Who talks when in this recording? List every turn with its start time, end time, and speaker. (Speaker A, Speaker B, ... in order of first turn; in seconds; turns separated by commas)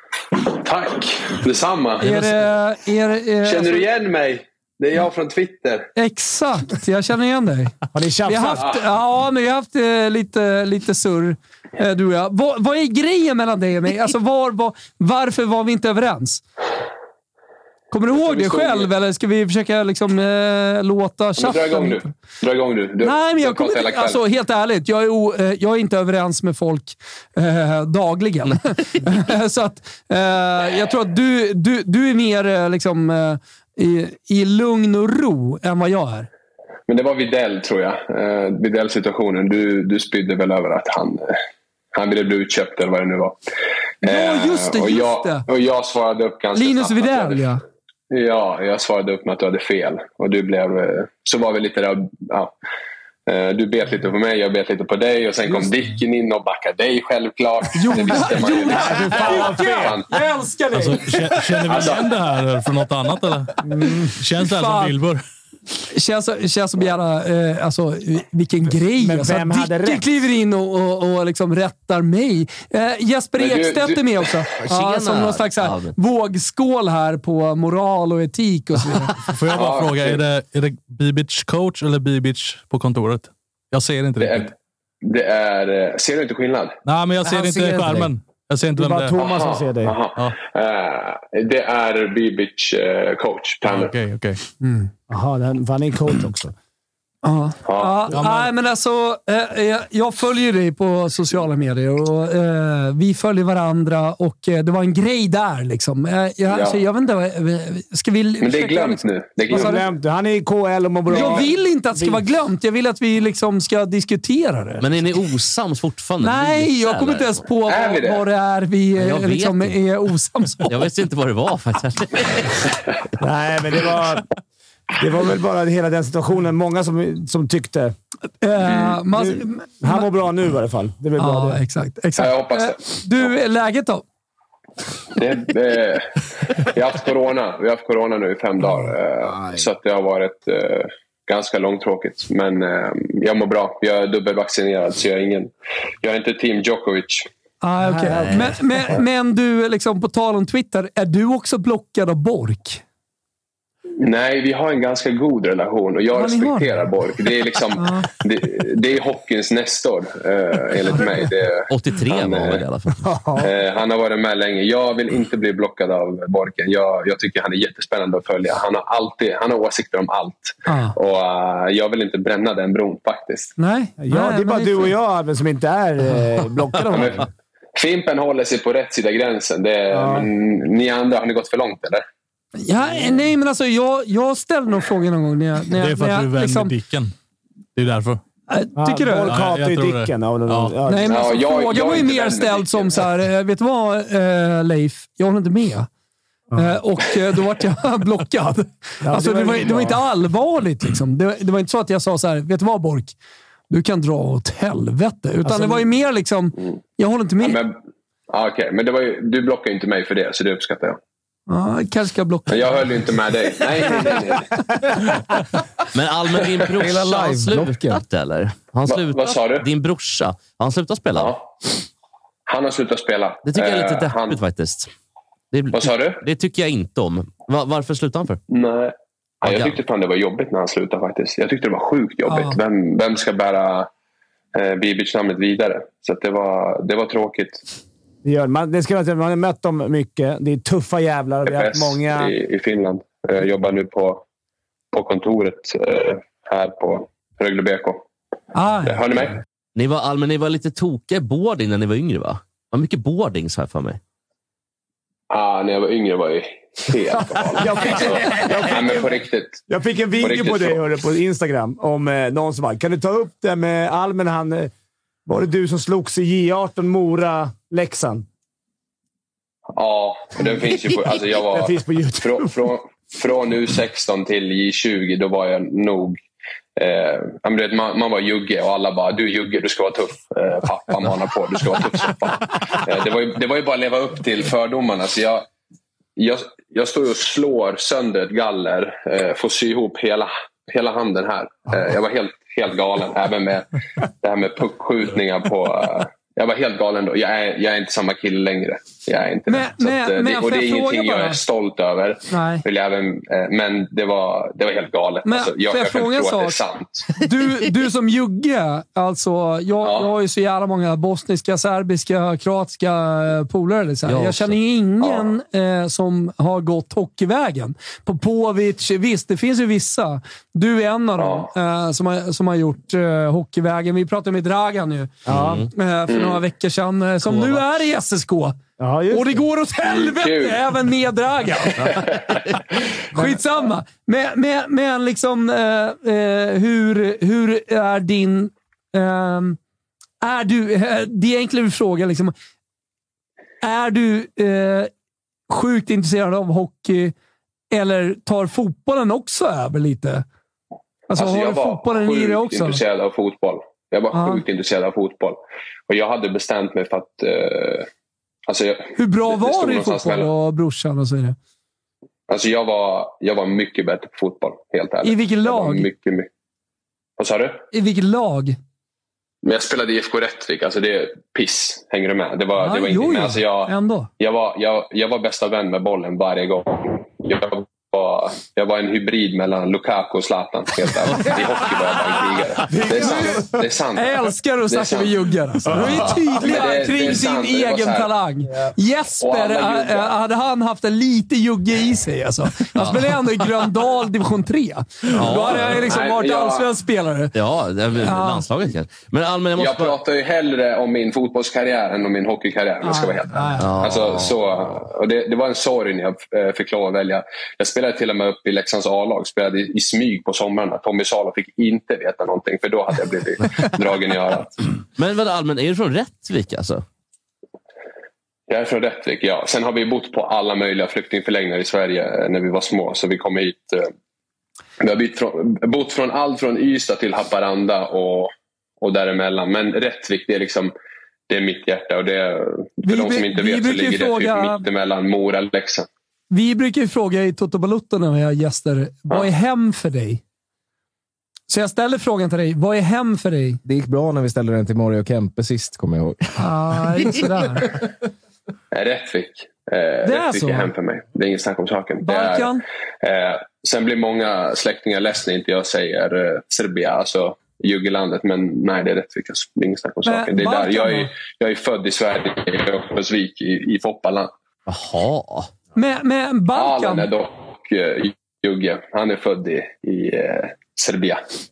Speaker A: 0.5-2.2, Speaker B: 2.0-3.9, Speaker A: 3.4-5.9, Speaker B: 6.0-16.4, Speaker C: 7.9-8.7, Speaker B: 17.9-22.1, Speaker A: 18.1-18.9, Speaker A: 21.4-24.2, Speaker B: 23.0-36.3, Speaker A: 36.9-41.4, Speaker A: 41.9-43.4, Speaker A: 44.0-47.4, Speaker B: 44.0-45.4, Speaker B: 46.5-47.6, Speaker A: 48.1-52.5, Speaker A: 53.3-60.1, Speaker B: 57.7-62.0, Speaker C: 58.6-60.0, Speaker D: 60.7-63.6, Speaker A: 61.7-62.0, Speaker C: 63.6-64.1, Speaker D: 64.2-65.2, Speaker B: 64.4-65.0, Speaker B: 65.9-79.1, Speaker C: 68.9-70.0, Speaker A: 73.4-74.3, Speaker E: 74.6-75.9, Speaker D: 79.3-84.5, Speaker A: 79.5-80.2, Speaker A: 84.2-84.5, Speaker A: 85.0-86.7, Speaker D: 86.8-89.2, Speaker F: 87.2-88.1, Speaker C: 88.8-89.9, Speaker A: 89.2-93.9, Speaker D: 93.6-94.4, Speaker B: 94.6-94.9, Speaker C: 95.1-96.5, Speaker B: 97.2-109.8, Speaker A: 97.7-98.1, Speaker D: 98.1-98.5, Speaker A: 106.5-106.8, Speaker A: 108.4-109.8, Speaker C: 109.5-112.2, Speaker B: 111.1-114.8, Speaker E: 114.8-117.4, Speaker B: 116.2-120.8, Speaker A: 117.7-118.2, Speaker E: 119.0-119.8, Speaker E: 120.6-122.7, Speaker C: 123.2-124.3, Speaker C: 125.0-127.9, Speaker B: 128.4-130.1, Speaker A: 128.6-129.0, Speaker C: 129.1-131.6, Speaker B: 131.2-134.0, Speaker A: 132.2-133.3, Speaker A: 135.1-147.3, Speaker B: 147.6-152.8, Speaker C: 147.8-148.4, Speaker E: 148.1-148.6, Speaker A: 154.0-162.6, Speaker B: 156.1-156.8, Speaker B: 157.8-158.1, Speaker E: 161.7-163.0, Speaker C: 163.0-163.5, Speaker A: 163.4-173.5, Speaker B: 170.7-170.9, Speaker B: 173.6-174.9, Speaker C: 174.0-177.2, Speaker A: 176.9-177.2, Speaker A: 177.8-182.0, Speaker C: 179.9-180.3, Speaker B: 182.6-186.7, Speaker D: 185.8-187.1, Speaker D: 187.8-188.2, Speaker B: 188.5-189.4, Speaker C: 188.8-191.4, Speaker D: 189.3-190.8, Speaker B: 190.8-195.9, Speaker A: 191.1-193.1, Speaker B: 196.5-203.1, Speaker C: 199.0-200.0, Speaker B: 203.7-207.6, Speaker C: 205.4-205.9, Speaker A: 207.4-207.8, Speaker A: 208.3-211.0, Speaker B: 211.5-213.0, Speaker A: 212.5-214.8, Speaker B: 213.8-214.4, Speaker E: 215.9-221.4, Speaker F: 216.7-218.0, Speaker A: 218.9-219.7, Speaker A: 221.2-221.4, Speaker A: 222.5-224.4, Speaker E: 223.4-224.9, Speaker E: 225.5-228.4, Speaker A: 225.7-226.2, Speaker A: 228.5-233.9, Speaker E: 229.4-229.8, Speaker B: 232.3-232.6, Speaker A: 234.5-237.6, Speaker C: 238.2-242.3, Speaker A: 241.4-244.2, Speaker A: 244.9-248.0, Speaker B: 248.5-249.4, Speaker A: 248.8-249.3, Speaker E: 249.7-254.0, Speaker A: 255.3-259.6, Speaker C: 257.3-264.7, Speaker A: 260.2-260.8, Speaker C: 265.2-268.2, Speaker A: 269.8-276.2, Speaker C: 270.6-272.6, Speaker A: 276.8-285.4, Speaker A: 286.1-293.7, Speaker A: 294.2-307.2, Speaker B: 299.5-301.4, Speaker B: 302.3-302.6, Speaker B: 305.2-306.6, Speaker B: 307.1-328.6, Speaker A: 309.8-310.1, Speaker E: 314.0-314.6, Speaker A: 321.2-321.5, Speaker C: 325.2-325.6, Speaker E: 325.3-325.7, Speaker A: 326.1-326.4, Speaker E: 327.2-327.7, Speaker C: 328.8-329.4, Speaker B: 329.1-332.1, Speaker A: 329.8-330.6, Speaker E: 331.8-332.0, Speaker B: 333.1-339.6, Speaker C: 333.1-333.4, Speaker B: 340.2-342.3, Speaker B: 343.6-344.9, Speaker B: 345.5-347.1, Speaker B: 347.7-350.2, Speaker B: 351.1-352.8, Speaker A: 351.1-357.9, Speaker B: 354.1-354.4, Speaker A: 358.5-360.3, Speaker B: 358.9-361.4, Speaker A: 362.3-366.3, Speaker B: 365.0-365.9, Speaker A: 367.2-367.6, Speaker B: 367.7-368.6, Speaker A: 369.4-385.2, Speaker B: 372.6-374.1, Speaker C: 382.6-383.6, Speaker B: 382.9-397.4, Speaker A: 385.7-388.1, Speaker A: 389.2-390.1, Speaker E: 392.8-393.2, Speaker E: 395.1-395.9, Speaker A: 395.8-396.7, Speaker E: 397.3-400.0, Speaker B: 398.0-398.5, Speaker A: 399.6-414.6, Speaker B: 402.8-403.8, Speaker E: 403.6-404.4, Speaker E: 415.0-416.8, Speaker A: 418.5-423.9, Speaker A: 424.8-430.7, Speaker A: 431.3-435.9, Speaker B: 432.8-434.6, Speaker B: 436.3-440.2, Speaker B: 441.5-443.6, Speaker F: 443.6-446.3, Speaker B: 446.4-447.7, Speaker A: 448.7-464.3, Speaker B: 450.0-450.7, Speaker B: 452.0-452.6, Speaker B: 460.0-461.1, Speaker E: 464.7-465.5, Speaker B: 465.7-467.1, Speaker A: 466.5-471.2